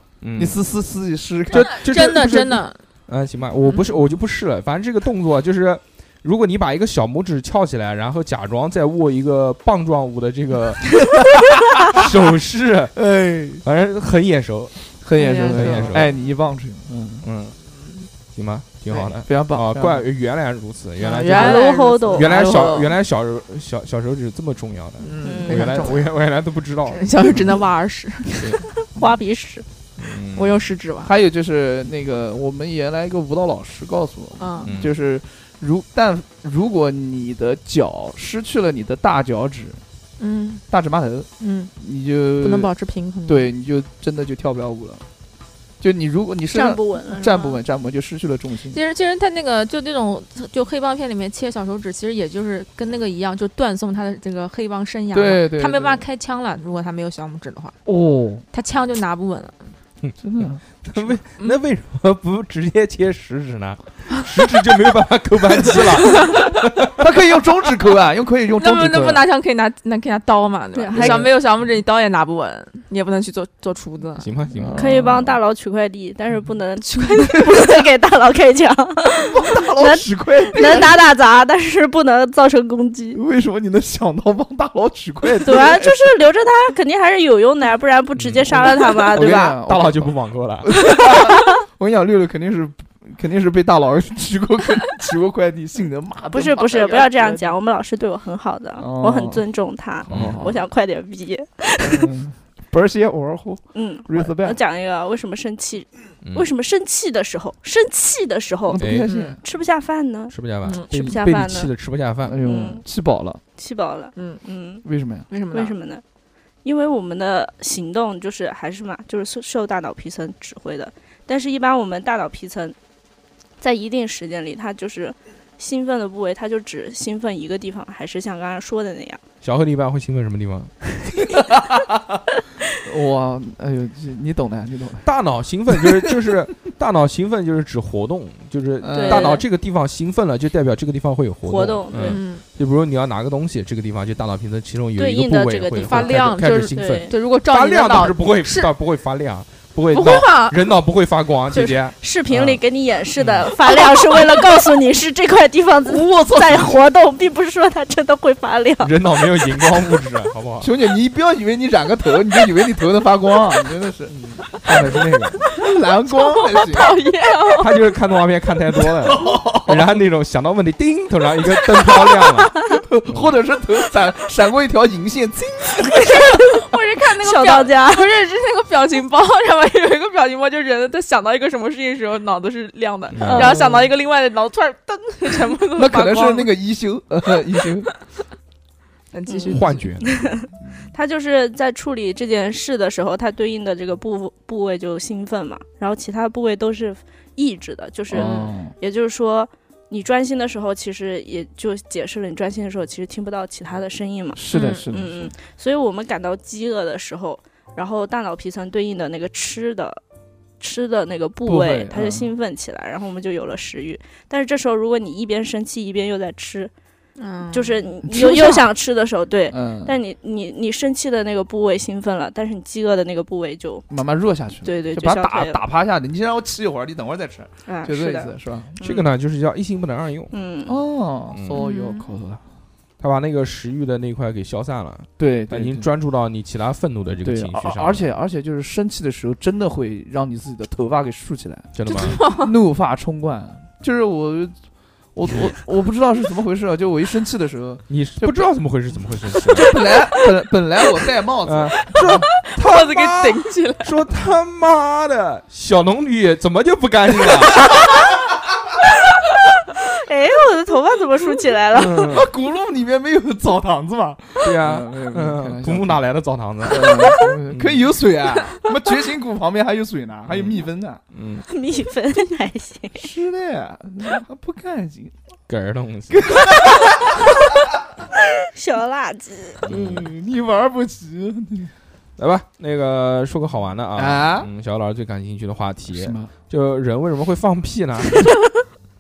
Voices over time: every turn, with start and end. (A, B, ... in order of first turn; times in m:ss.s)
0:00.2-0:00.6 A
0:00.4-0:02.4 B
0:01.5-0:11.2 A
0:01.5-0:02.8 C
0:11.9-0:13.0 A
0:13.0-0:13.6 B
0:13.6-0:16.1 A
0:15.0-0:17.2 B
0:15.2-0:16.0 C
0:17.2-0:17.6 A
0:18.3-0:27.6 A
0:18.9-0:20.0 B
0:21.0-0:22.9 C
0:21.3-0:22.5 D
0:25.0-0:26.0 C
0:25.2-0:25.9 D
0:26.9-0:28.6 C
0:28.4-0:28.6 A
0:28.8-0:29.6 D
0:30.0-0:30.6 A
0:30.3-0:31.1 C
0:31.0-0:39.8 B
0:34.4-0:34.7 C
0:34.6-0:35.0 A
0:40.2-0:40.6 C
0:40.7-0:42.7 B
0:41.4-0:41.7 C
0:42.4-0:43.5 C
0:43.3-0:45.0 B
0:45.8-0:48.8 B
0:46.5-0:47.6 D
0:48.7-0:57.8 C
0:55.1-0:56.0 B
0:57.8-0:58.4 B
0:58.5-0:59.7 C
1:00.0-1:06.9 A
1:00.2-1:01.1 B
1:05.6-1:09.2 B
1:08.6-1:14.3 C
1:10.7-1:11.3 D
1:10.9-1:11.3 B
1:14.2-1:15.1 A
1:14.5-1:15.4 B
1:14.8-1:23.2 D
1:17.4-1:17.7 B
1:19.2-1:21.0 B
1:23.1-1:26.1 B
1:25.4-1:29.6 D
1:28.2-1:28.6 A
1:28.5-1:37.5 B
1:29.2-1:30.7 A
1:36.3-1:42.1 D
1:38.8-1:39.4 B
1:40.0-1:40.6 B
1:40.1-1:40.5 A
1:41.8-1:44.6 B
1:43.7-1:50.4 D
1:48.7-1:49.4 B
1:48.8-1:49.1 A
1:50.3-1:52.4 A
1:50.6-1:51.2 C
1:50.9-1:51.7 D
1:52.2-1:53.4 B
1:52.4-1:52.8 D
1:53.6-1:54.8 D
1:54.2-1:54.4 C
1:54.8-1:55.3 B
1:55.3-1:55.7 C
1:55.5-1:56.0 D
1:56.6-2:02.8 D
2:03.6-2:09.2 D
2:09.4-2:10.7 A
2:11.3-2:15.1 B
2:15.0-2:32.6 A
2:15.8-2:16.1 B
2:18.8-2:19.4 B
2:18.9-2:19.4 D
2:21.4-2:22.2 D
2:22.0-2:22.4 C
2:25.0-2:27.1 D
2:25.8-2:28.7 C
2:29.9-2:30.6 C
2:31.5-2:38.9 D
2:33.2-2:33.5 A
2:35.9-2:36.7 B
2:38.8-2:40.7 A
2:40.6-2:47.0 B
2:44.1-2:45.2 A
2:46.1-2:47.7 C
2:47.6-2:52.5 A
2:48.9-2:50.0 B
2:52.7-2:56.5 B
2:53.1-2:53.4 A
2:56.1-3:06.5 C
2:57.2-2:58.1 D
3:03.1-3:03.5 A
3:03.2-3:03.6 D
3:03.3-3:03.9 B
3:05.7-3:07.9 B
3:09.1-3:09.8 C
3:09.3-3:30.0 D
3:09.5-3:10.3 A
3:18.1-3:18.7 B
3:24.4-3:25.3 B
3:24.5-3:24.8 C
3:30.6-3:36.7 D
3:31.4-3:32.3 B
3:37.2-3:37.9 C
3:37.5-3:43.9 D
3:38.0-3:38.6 B
3:39.5-3:40.0 B
3:43.9-3:48.8 B
3:44.6-3:45.6 D
3:47.7-3:49.0 D
3:48.8-3:50.3 A
3:50.3-3:50.8 D
3:50.7-3:52.4 B
3:51.3-3:51.6 A
3:51.5-3:52.0 C
3:53.0-3:58.1 A
3:55.2-3:55.8 B
3:57.2-4:04.5 B
4:01.7-4:02.3 A
4:02.0-4:02.5 C
4:05.1-4:08.4 B
4:05.3-4:05.5 A
4:07.9-4:09.8 A
4:09.4-4:12.2 B
4:11.4-4:17.8 A
4:12.4-4:13.9 C
4:19.7-4:22.2 D
4:21.7-4:22.3 A
4:22.0-4:26.0 B
4:24.4-4:27.8 A
4:26.6-4:31.0 B
4:30.3-4:31.5 A
4:31.5-4:33.1 D
4:33.0-4:35.1 B
4:35.5-4:36.4 A
4:36.1-4:37.6 B
4:38.4-4:39.6 D
4:39.6-4:40.1 A
4:39.6-4:41.7 B
4:42.2-4:48.2 A
4:43.9-4:44.5 B
4:45.9-4:46.3 B